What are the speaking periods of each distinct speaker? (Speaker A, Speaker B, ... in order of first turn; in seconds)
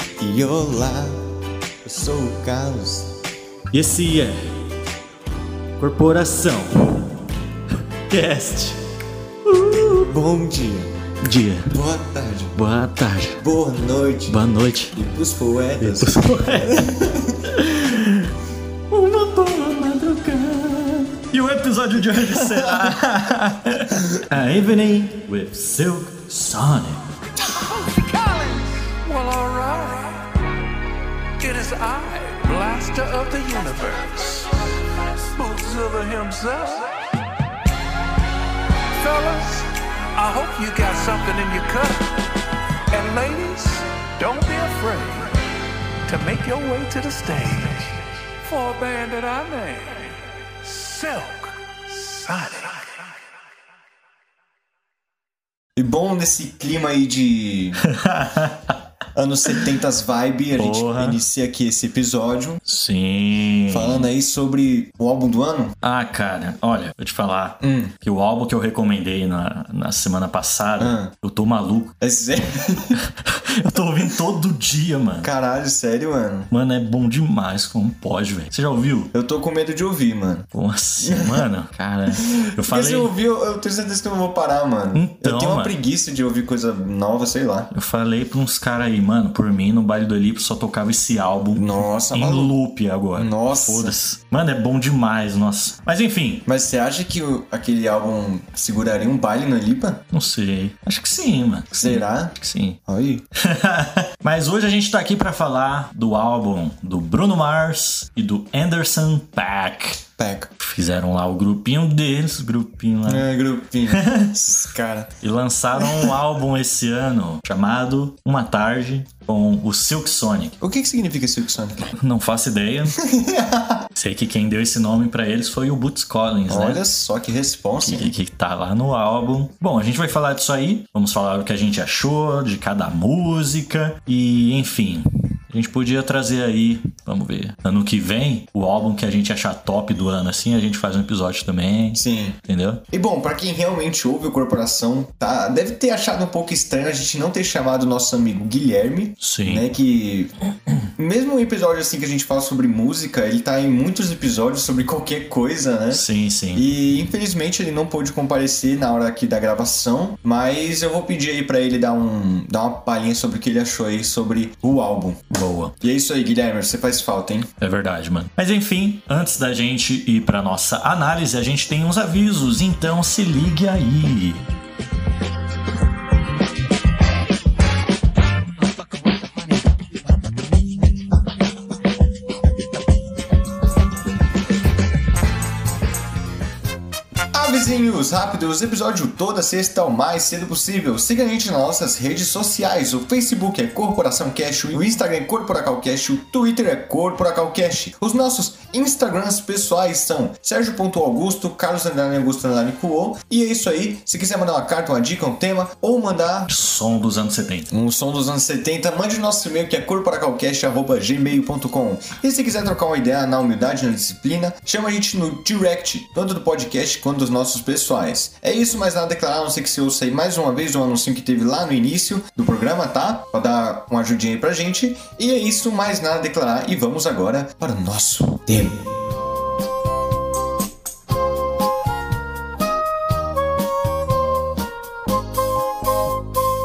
Speaker A: 0.2-1.3, 1.8-3.1, 10.0-11.0, 11.7-12.6, 13.4-14.4, 14.9-17.4, 22.3-22.9, 55.8-57.8, 59.1-62.6, 63.7-65.8, 67.6-67.9, 70.8-71.1, 72.0-73.0, 75.2-76.5, 79.1-80.5, 81.0-81.4, 82.1-87.7, 91.5-92.5, 93.2-94.0, 96.5-100.0, 101.8-102.3, 102.9-103.2, 110.2-110.5, 113.0-115.2, 115.8-116.1, 120.6-121.9, 122.9-123.9, 126.5-128.1, 141.9-142.4, 142.9-150.3, 151.0-165.3, 165.8-167.5, 187.3-206.5, 207.7-228.8
Speaker B: 3.7-4.6, 5.8-7.1, 8.1-8.8, 9.4-10.1, 11.2-11.8, 12.5-13.4, 14.3-14.9, 15.8-18.3, 18.9-27.1, 57.8-58.8, 60.6-61.2, 62.6-64.1, 65.8-72.0, 73.0-75.3, 76.5-79.1, 80.5-83.1, 84.9-85.8, 87.7-96.5, 100.1-102.8, 103.3-110.0, 110.6-113.3, 113.9-114.3, 115.2-120.6, 121.9-123.0, 123.9-126.8, 127.8-142.8, 149.2-149.7, 155.9-156.7, 165.3-165.7, 167.6-174.5, 206.5-207.7
Speaker C: 27.6-30.3, 31.4-34.7, 35.2-36.9, 38.9-42.1, 42.9-45.4, 46.0-53.0